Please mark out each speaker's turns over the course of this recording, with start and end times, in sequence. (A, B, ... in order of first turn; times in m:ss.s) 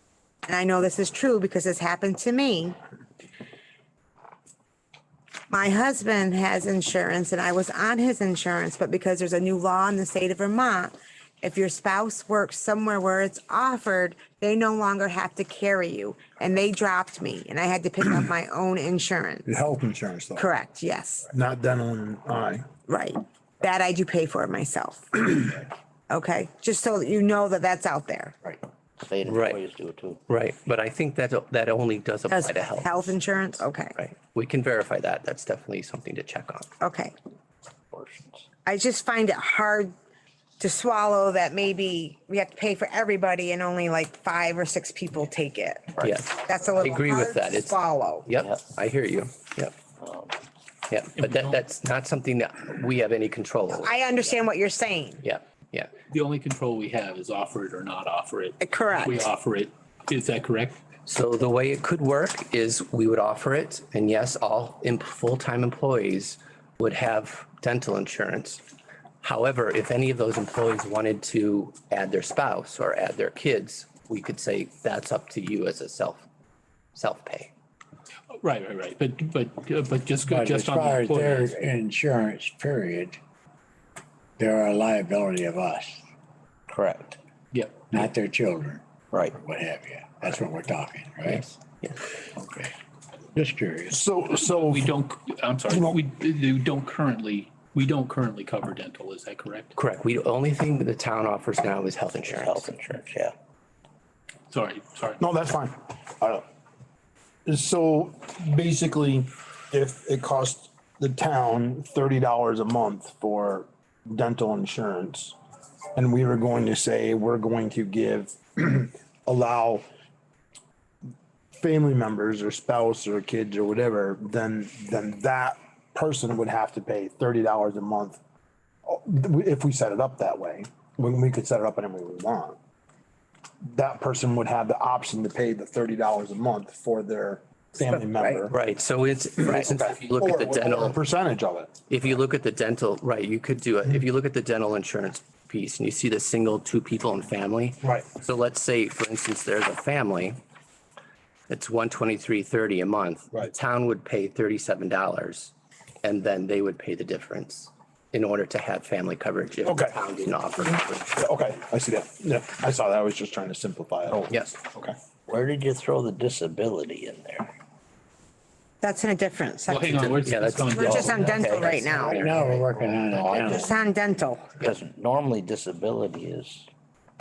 0:00.4-0:02.8 A
0:05.5-0:19.5 A
0:19.4-0:20.5 B
0:20.4-0:21.3 A
0:21.3-0:22.7 B
0:22.9-0:25.6 A
0:26.1-0:28.4 A
0:29.0-0:30.2 C
0:29.2-0:29.6 D
0:30.3-0:36.7 D
0:32.3-0:34.0 A
0:36.8-0:37.1 A
0:37.9-0:38.5 C
0:38.6-0:39.9 A
0:40.6-0:48.3 A
0:46.0-0:49.7 D
0:50.0-0:50.3 C
0:50.9-0:54.0 D
0:51.2-0:51.6 E
0:53.8-0:55.2 A
0:55.2-0:55.9 D
0:56.1-1:00.8 E
0:58.6-0:59.3 A
1:01.0-1:08.6 D
1:09.2-1:16.2 D
1:16.9-1:17.5 D
1:18.4-1:21.6 E
1:20.2-1:23.2 F
1:24.4-1:26.0 F
1:26.7-1:27.2 C
1:27.5-1:27.9 E
1:27.9-1:31.4 F
1:29.1-1:29.4 C
1:31.2-1:32.0 D
1:33.3-1:34.0 F
1:33.9-1:34.9 B
1:34.6-1:39.7 E
1:35.7-1:36.0 B
1:39.8-1:42.7 D
1:42.2-1:43.3 C
1:44.5-1:45.2 E
1:45.2-1:46.4 B
1:47.4-1:55.4 B
1:56.0-1:59.8 B
2:01.6-2:08.2 B
2:08.9-2:12.6 B
2:13.6-2:18.6 B
2:17.8-2:18.4 A
2:18.5-2:21.0 D
2:19.4-2:21.9 B
2:21.9-2:30.4 D
2:31.5-2:41.2 D
2:39.6-2:40.0 B
2:41.2-2:45.0 B
2:44.3-2:44.5 D
2:45.3-2:47.5 C
2:48.8-2:50.1 A
2:49.7-2:51.4 E
2:50.0-2:52.2 D
2:50.7-2:52.3 A
2:51.4-2:52.1 C
2:52.0-2:52.5 E
2:52.1-2:53.7 F
2:53.1-2:53.4 E
2:53.3-2:53.6 C
2:53.4-2:54.6 A
2:54.6-2:56.7 C